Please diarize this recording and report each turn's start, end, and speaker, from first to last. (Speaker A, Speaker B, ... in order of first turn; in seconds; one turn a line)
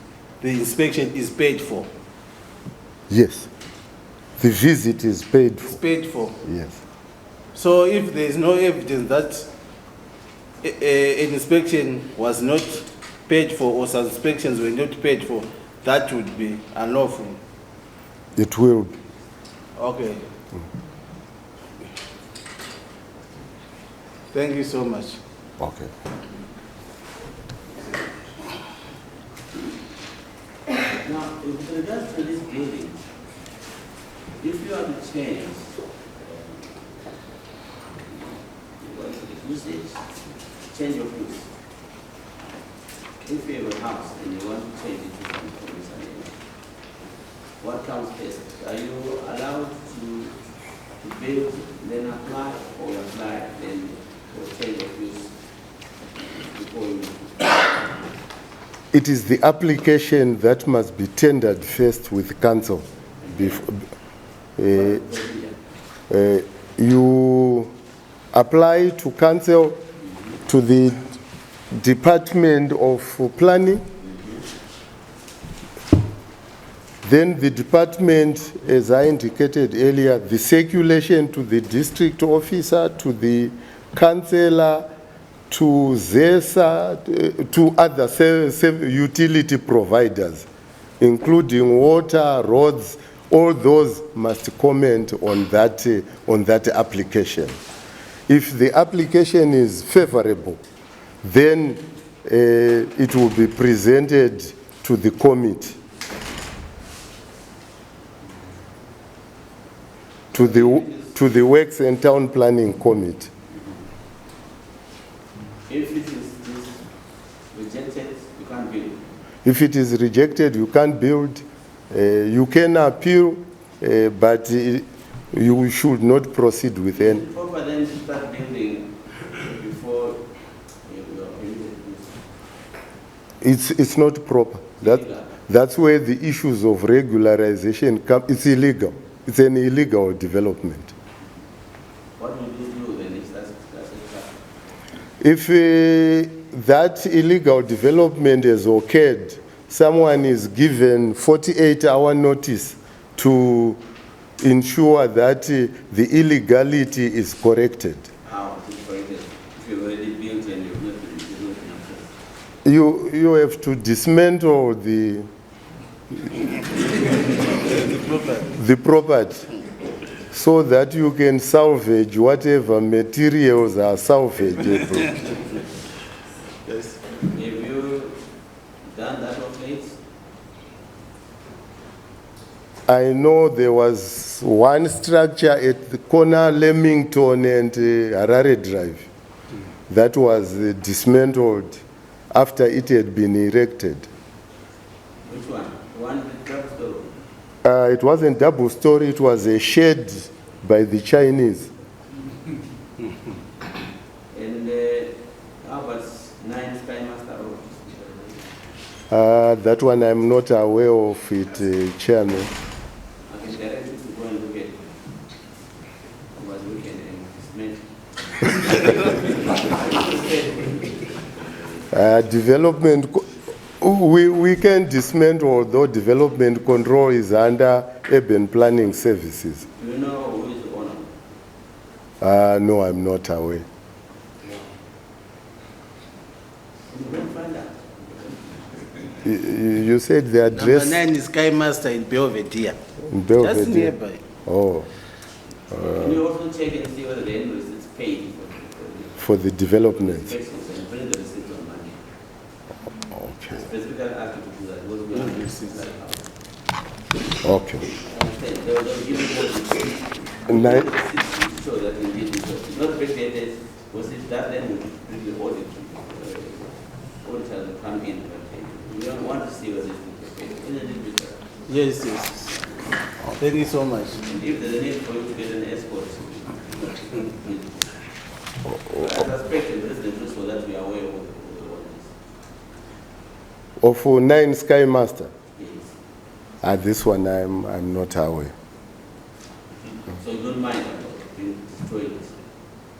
Speaker A: 0.4-1.9
Speaker B: 3.1-3.5
Speaker B: 4.4-5.8
Speaker A: 5.7-6.4
Speaker B: 6.4-6.8
Speaker A: 7.5-9.5
Speaker A: 10.6-17.4
Speaker B: 18.4-18.9
Speaker A: 19.8-20.2
Speaker A: 24.3-25.2
Speaker B: 25.6-25.9
Speaker C: 30.9-33.0
Speaker C: 34.4-36.8
Speaker C: 38.0-40.1
Speaker C: 40.7-41.5
Speaker C: 43.2-46.3
Speaker C: 47.6-50.3
Speaker C: 51.0-55.3
Speaker C: 56.5-57.8
Speaker B: 58.9-63.8
Speaker C: 63.2-63.6
Speaker B: 64.6-65.0
Speaker C: 64.7-65.5
Speaker B: 66.1-67.7
Speaker B: 68.3-69.8
Speaker B: 70.5-71.1
Speaker B: 71.7-73.8
Speaker C: 74.0-74.4
Speaker B: 77.0-84.8
Speaker B: 85.5-90.5
Speaker B: 91.0-97.6
Speaker B: 98.3-100.6
Speaker B: 101.2-105.8
Speaker C: 110.3-111.2
Speaker B: 110.3-113.3
Speaker C: 115.7-116.8
Speaker C: 117.5-119.0
Speaker B: 119.4-127.2
Speaker C: 126.9-130.2
Speaker C: 130.9-132.2
Speaker B: 133.4-140.9
Speaker C: 134.8-135.4
Speaker C: 142.2-144.3
Speaker B: 145.2-153.8
Speaker B: 154.4-158.1
Speaker C: 158.2-162.1
Speaker B: 162.6-165.3
Speaker A: 167.4-168.6
Speaker B: 168.5-169.4
Speaker B: 170.3-175.3
Speaker A: 176.7-177.1
Speaker C: 177.2-178.1
Speaker C: 178.9-180.0
Speaker B: 182.9-189.1
Speaker B: 189.9-191.8
Speaker B: 192.3-194.1
Speaker C: 195.2-197.1
Speaker B: 197.6-201.7
Speaker C: 204.3-208.4
Speaker B: 209.1-212.5
Speaker C: 213.3-214.8
Speaker C: 216.4-217.8
Speaker C: 218.4-221.9
Speaker B: 221.9-223.2
Speaker B: 223.8-229.7
Speaker C: 229.8-231.1
Speaker B: 232.2-233.6
Speaker C: 236.9-238.8
Speaker B: 239.2-241.1
Speaker A: 240.5-242.8
Speaker B: 243.1-243.9
Speaker A: 243.4-244.2
Speaker B: 244.4-244.9
Speaker B: 245.7-246.2
Speaker C: 245.8-249.2
Speaker B: 249.2-250.3
Speaker C: 249.9-252.0
Speaker B: 253.1-253.6
Speaker C: 253.5-256.3
Speaker A: 255.1-255.8
Speaker B: 257.4-257.9
Speaker C: 258.0-271.5
Speaker B: 260.5-260.9
Speaker A: 271.7-272.6
Speaker A: 273.3-274.2
Speaker C: 274.2-277.9
Speaker C: 278.9-282.1
Speaker B: 283.8-285.3
Speaker C: 285.6-285.9
Speaker B: 286.6-288.5
Speaker C: 290.1-292.3